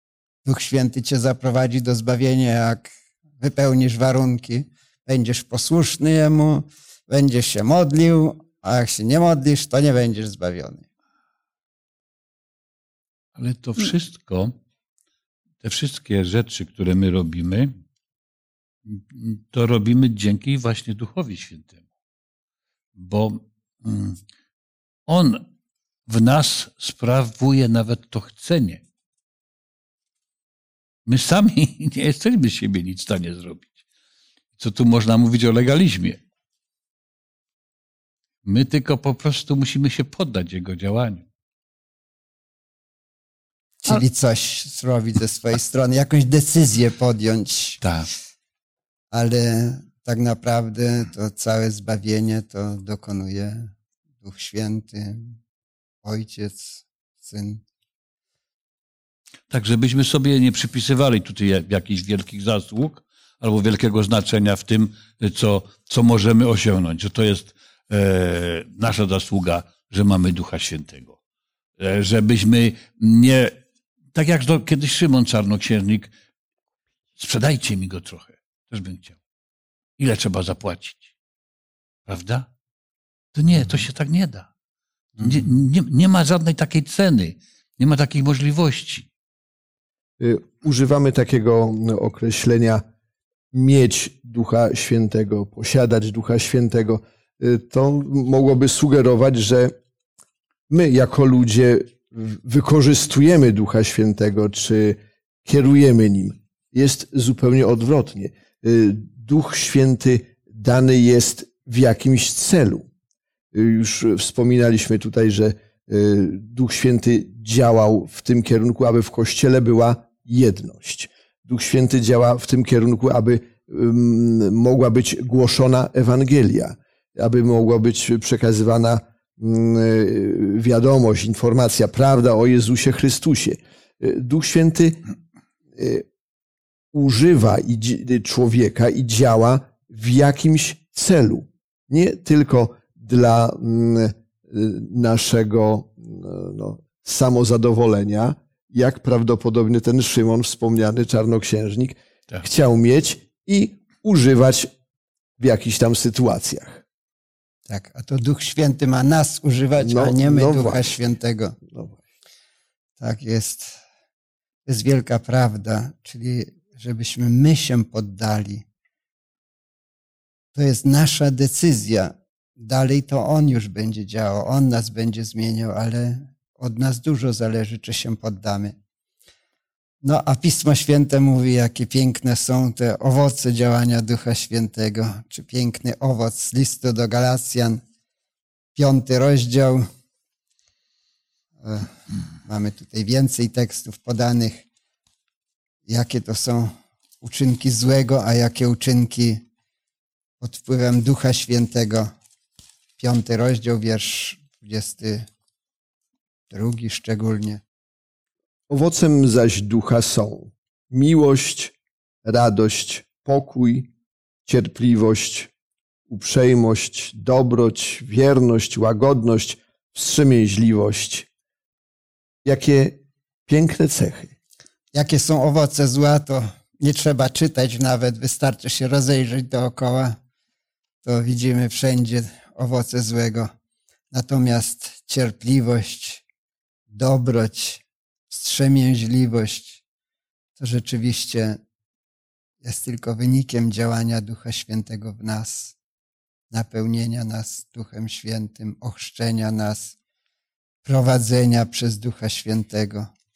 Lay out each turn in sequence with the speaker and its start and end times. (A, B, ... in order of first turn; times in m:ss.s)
0:00.4-0:10.8 A
0:13.4-0:14.5 B
0:15.6-0:17.7 B
0:18.9-0:21.8 B
0:23.0-0:24.2 B
0:25.1-0:25.5 B
0:26.1-0:28.8 B
0:31.1-0:33.7 B
0:34.6-0:36.2 B
0:38.4-0:41.2 B
0:43.8-0:47.8 A
0:47.8-0:48.1 B
0:49.1-0:55.4 A
0:56.0-0:57.6 A
0:59.5-1:11.2 B
1:11.8-1:13.6 B
1:14.1-1:16.1 B
1:17.2-1:19.2 B
1:20.0-1:21.1 B
1:22.1-1:22.5 B
1:23.3-1:24.5 B
1:25.2-1:29.1 B
1:30.2-1:32.8 C
1:33.5-1:39.7 C
1:40.7-1:52.9 C
1:53.5-2:15.0 C
2:15.8-2:16.0 C
2:16.9-2:34.7 C
2:35.4-2:36.8 C
2:37.7-2:41.6 A
2:39.8-2:40.9 C
2:41.7-2:42.0 C
2:43.0-2:43.8 A
2:44.7-2:48.6 A
2:50.5-2:58.8 A
3:00.0-3:07.8 A
3:08.8-3:09.8 A
3:11.6-3:14.6 A
3:15.9-3:19.4 A
3:20.4-3:22.1 A
3:23.0-3:25.3 A
3:26.5-3:27.6 A
3:28.7-3:31.7 C
3:32.2-3:33.9 C
3:34.5-3:35.5 C
3:36.1-3:41.3 C
3:42.4-3:44.3 C
3:44.9-3:50.2 A
3:51.0-3:53.5 A
3:54.1-3:56.2 A
3:56.9-3:59.8 A
4:00.6-4:01.6 A
4:02.6-4:05.8 A
4:06.5-4:10.0 A
4:10.8-4:13.1 A